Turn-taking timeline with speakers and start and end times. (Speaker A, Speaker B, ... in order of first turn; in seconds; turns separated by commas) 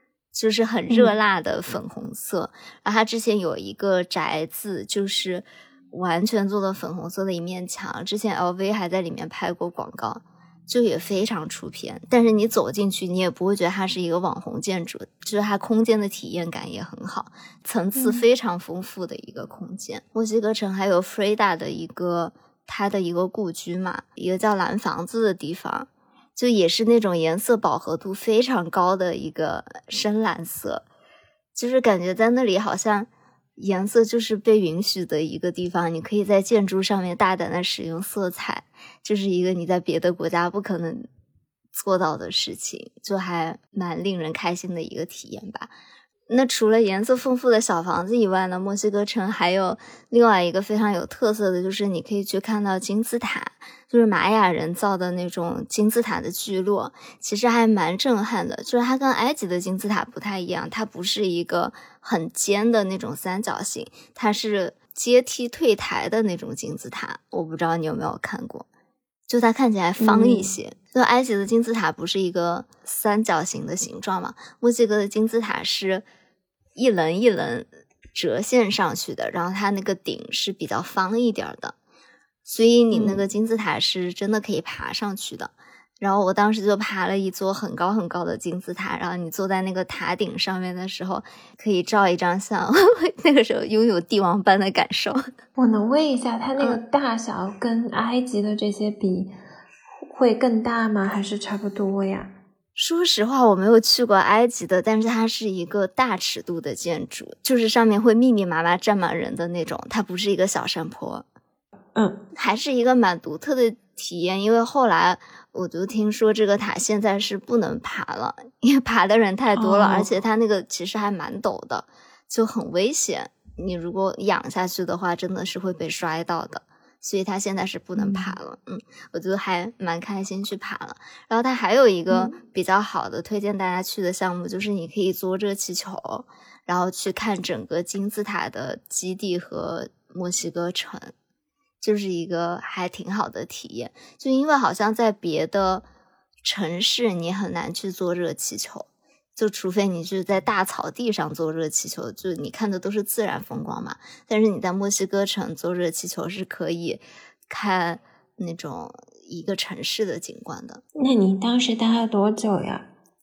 Speaker A: 0.3-30.8, Speaker B: 0.9-1.1, Speaker B: 17.9-18.2, Speaker A: 31.5-41.1, Speaker A: 41.7-45.7, Speaker A: 46.3-68.7, Speaker A: 69.3-76.0, Speaker B: 70.0-70.5, Speaker A: 76.8-81.7, Speaker A: 82.5-95.2, Speaker B: 82.9-83.2, Speaker B: 95.5-99.3, Speaker B: 100.0-102.3, Speaker A: 102.8-111.2, Speaker B: 111.9-112.2, Speaker A: 112.3-141.1, Speaker B: 119.5-120.1, Speaker B: 128.0-128.3, Speaker B: 132.1-132.3, Speaker A: 141.8-145.8, Speaker A: 146.4-160.8, Speaker B: 161.0-162.9